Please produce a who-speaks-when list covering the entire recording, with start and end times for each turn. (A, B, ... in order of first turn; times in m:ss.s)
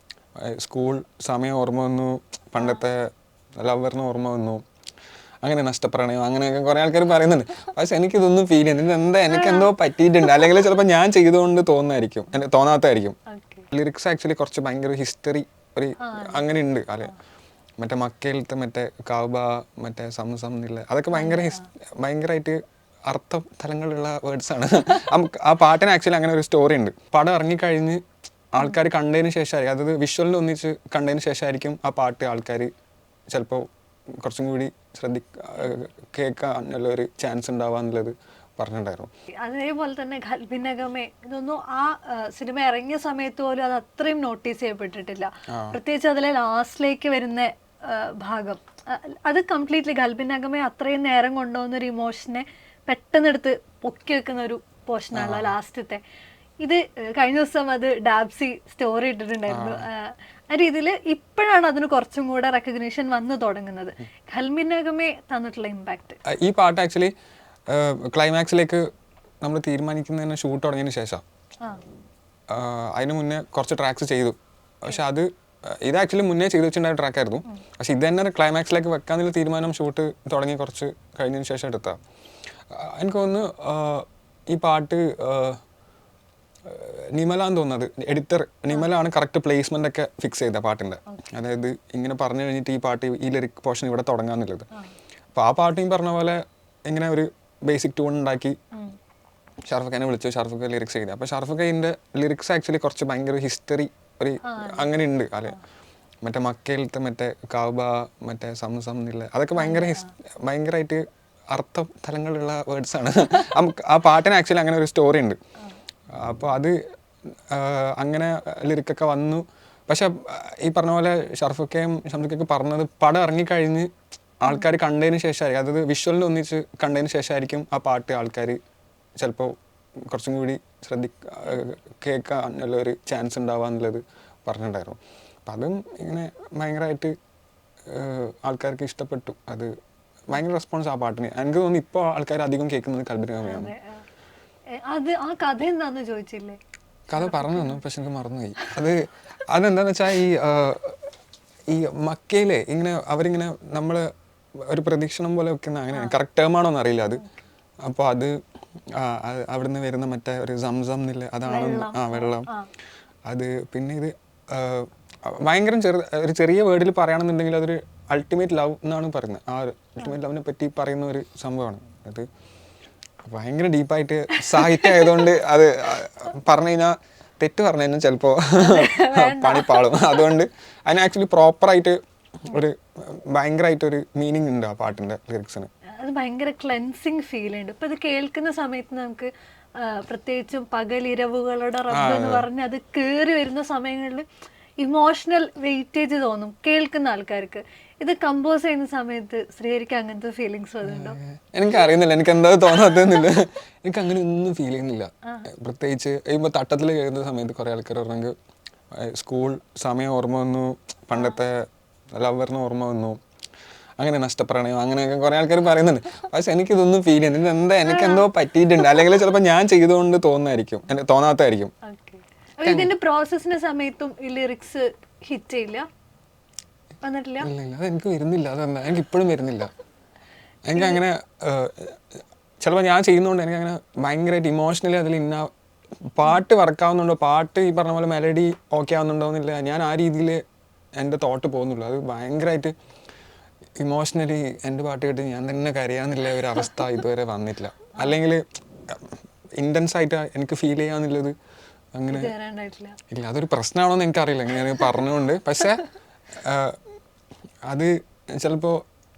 0:00.4-0:03.0 A
0:03.6-0:04.6 A
0:05.4-0:13.2 A
0:09.3-0:09.7 B
0:13.3-0:13.7 B
0:13.7-0:17.2 A
0:16.0-0:16.5 B
0:17.8-0:28.0 A
0:21.1-0:21.7 B
0:28.5-0:32.7 A
0:33.3-0:33.6 A
0:34.2-0:39.1 A
0:39.4-0:56.0 B
0:45.5-0:45.8 A
0:55.1-0:55.6 A
0:56.6-1:06.2 B
0:59.5-0:59.8 A
1:06.3-1:07.1 A
1:07.7-1:08.8 A
1:09.4-1:11.2 A
1:12.5-1:22.0 A
1:22.7-1:25.6 A
1:26.6-1:34.7 A
1:35.3-1:38.6 A
1:39.7-1:45.6 A
1:44.4-1:44.9 B
1:46.2-1:55.4 A
1:49.6-1:50.1 B
1:56.1-1:56.8 A
1:57.5-2:08.6 A
2:09.2-2:09.6 A
2:10.1-2:17.1 A
2:17.9-2:19.7 A
2:20.3-2:23.7 A
2:23.4-2:24.0 B
2:24.8-2:26.6 B
2:27.1-2:31.1 A
2:27.2-2:27.8 B
2:31.7-2:34.1 A
2:34.6-2:37.2 A
2:37.8-2:38.4 A
2:38.9-2:42.5 A
2:41.5-2:42.7 B
2:43.3-2:52.3 A
2:53.2-3:05.7 A
2:54.5-2:55.3 B
2:58.6-3:00.3 B
3:06.0-3:14.3 B
3:11.9-3:12.5 A
3:14.8-3:21.2 B
3:20.8-3:28.4 A
3:28.9-3:33.2 A
3:34.0-3:41.7 A
3:37.8-3:38.3 B
3:41.8-3:45.9 B
3:42.6-3:42.9 A
3:47.0-3:47.5 B
3:47.4-3:49.7 A
3:50.7-3:55.5 A
3:50.8-3:51.0 B
3:56.1-4:00.4 A
4:01.0-4:02.7 A
4:03.8-4:11.3 A
4:12.0-4:12.3 A
4:12.1-4:13.0 B
4:13.1-4:15.9 A
4:16.4-4:16.8 A
4:17.7-4:18.8 A